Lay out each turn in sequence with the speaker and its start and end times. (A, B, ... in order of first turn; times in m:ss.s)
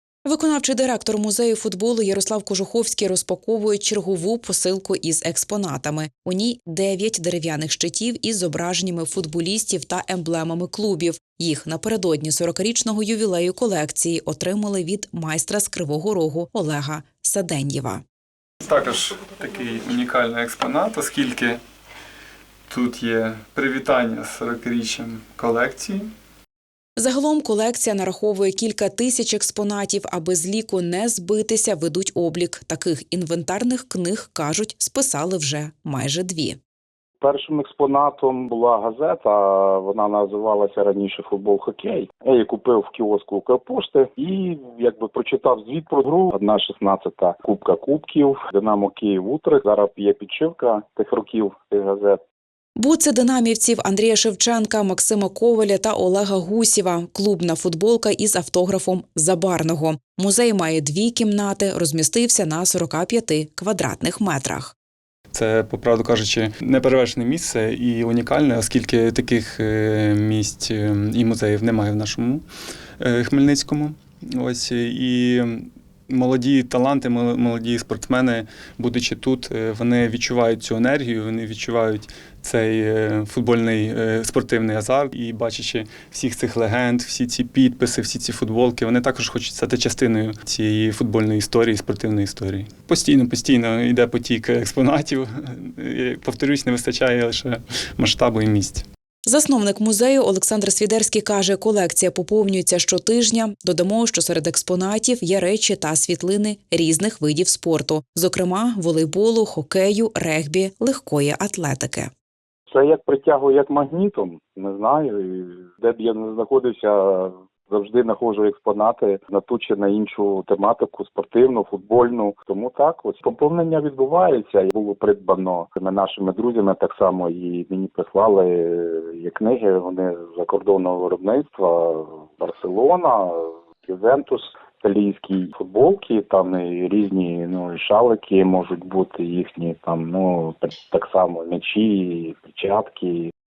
0:00.2-0:18.0 A
0:18.6-0:21.6 B
0:22.7-0:26.1 B
0:27.0-0:36.6 A
0:37.2-0:52.2 C
0:52.8-1:04.7 A
1:05.3-1:12.4 B
1:13.0-1:38.8 B
1:39.3-1:52.1 A
1:52.7-2:23.3 C